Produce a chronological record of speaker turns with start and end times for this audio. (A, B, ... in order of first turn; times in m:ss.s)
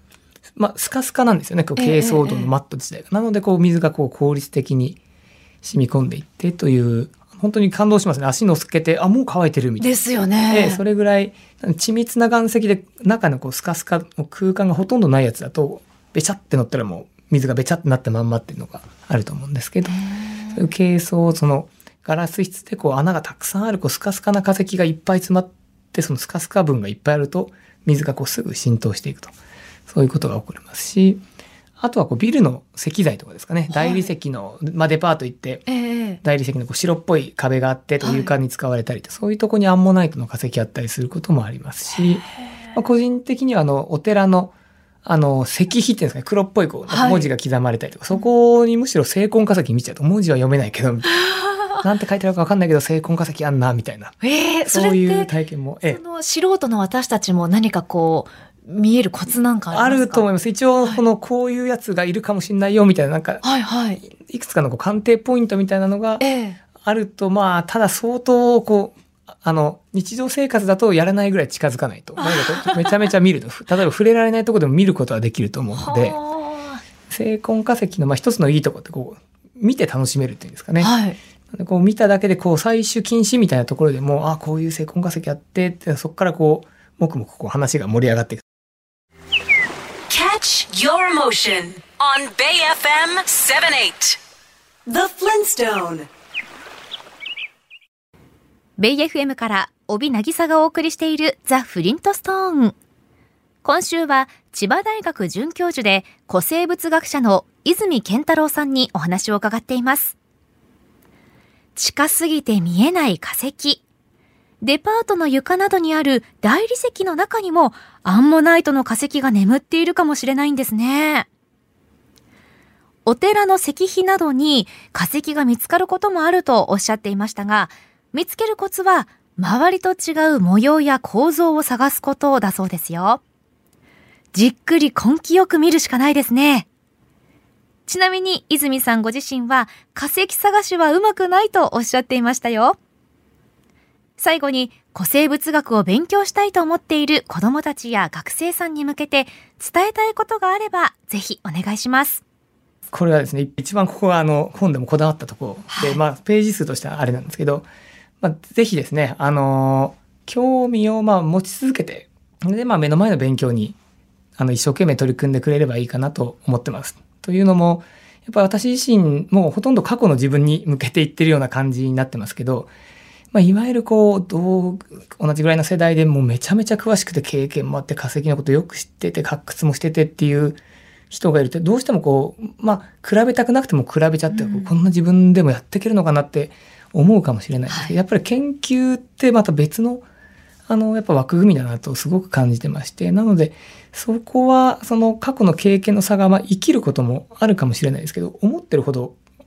0:00.6-0:05.0 A
0:01.8-0:02.5 B
0:05.6-0:20.0 A
0:09.8-0:10.8 B
0:19.9-0:20.6 B
0:20.5-0:29.3 A
0:29.9-0:31.2 A
0:31.8-0:44.5 A
0:33.7-0:34.1 B
0:35.7-0:36.2 B
0:38.0-0:38.3 B
0:45.0-0:51.2 A
0:46.9-0:47.3 B
0:51.8-0:56.0 A
0:54.2-0:55.3 B
0:55.8-1:00.2 B
0:59.7-1:03.5 A
1:03.4-1:04.0 B
1:04.0-1:16.2 A
1:06.2-1:06.6 B
1:12.2-1:12.9 B
1:15.8-1:16.8 B
1:17.1-1:21.0 A
1:20.8-1:21.2 B
1:21.5-1:28.4 A
1:30.1-1:34.2 C
1:34.9-1:36.1 C
1:38.8-1:42.8 B
1:43.6-1:50.2 B
1:51.8-1:53.8 B
1:54.6-2:01.3 B
2:03.1-2:13.2 B
2:14.3-2:16.7 B
2:17.9-2:22.8 B
2:24.2-2:32.2 B
2:32.9-2:37.7 A
2:35.7-2:36.0 B
2:38.2-2:43.8 A
2:44.4-2:52.7 A
2:53.3-3:00.6 A
3:01.1-3:10.0 A
3:04.3-3:04.7 B
3:07.7-3:08.0 B
3:10.7-3:19.2 A